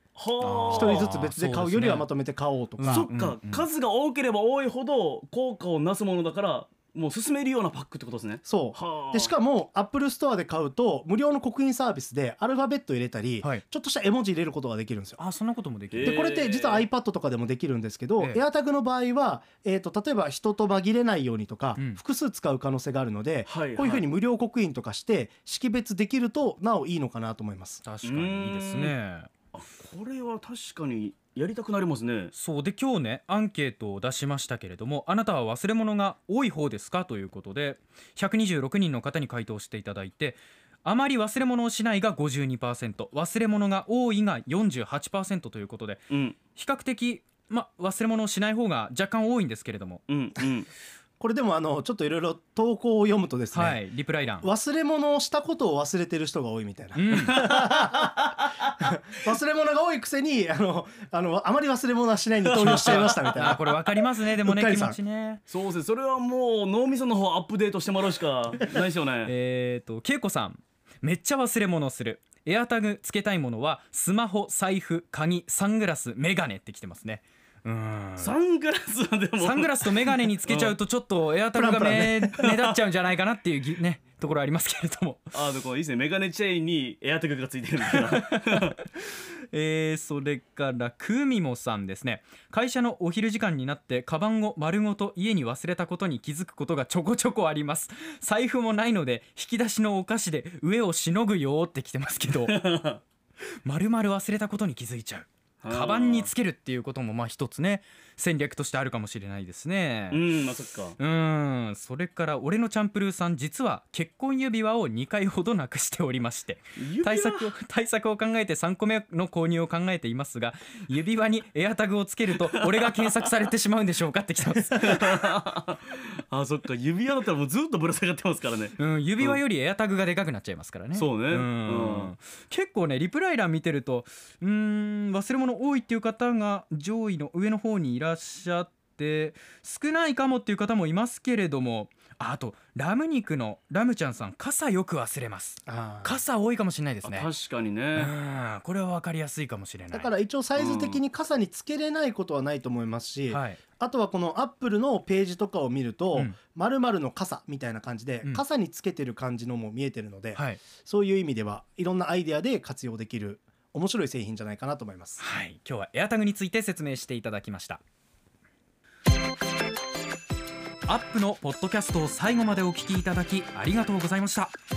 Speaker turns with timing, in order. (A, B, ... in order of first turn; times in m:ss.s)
0:00.2-0:01.1 A
0:00.4-0:02.1 B
0:00.7-0:03.1 C
0:02.8-0:03.7 B
0:02.9-0:09.3 A
0:08.4-0:15.2 C
0:15.2-0:16.2 B
0:15.9-0:16.9 A
0:16.1-0:27.8 C
0:23.5-0:24.1 A
0:27.8-0:29.3 B
0:28.0-0:29.0 A
0:29.5-0:32.3 A
0:32.3-0:50.0 B
0:46.1-0:46.4 A
0:50.1-0:50.7 A
0:51.2-0:53.8 C
0:53.5-0:54.5 B
0:54.4-0:58.1 C
0:57.0-0:57.5 B
0:57.3-0:58.4 A
0:58.8-1:03.7 C
1:02.5-1:03.8 A
1:02.6-1:05.4 B
1:04.4-1:05.0 C
1:05.5-1:09.3 A
1:09.2-1:18.3 B
1:18.2-1:20.8 A
1:19.4-1:25.4 B
1:21.5-1:22.1 C
1:22.3-1:22.6 A
1:25.3-1:28.8 A
1:28.0-1:28.8 B
1:29.5-1:42.6 B
1:42.4-1:43.0 A
1:43.6-1:50.2 B
1:45.6-1:46.3 A
1:50.1-1:51.0 A
1:51.0-2:05.2 B
1:56.8-1:57.5 A
2:02.7-2:03.1 A
2:04.8-2:09.4 A
2:08.8-2:27.3 B
2:10.9-2:12.1 A
2:25.7-2:26.2 C
2:27.0-2:28.1 A
2:28.0-2:30.1 B
2:29.9-2:45.2 C
2:30.6-2:31.0 A
2:33.3-2:33.6 B
2:40.4-2:40.6 B
2:45.2-2:47.8 B
2:50.9-2:54.5 B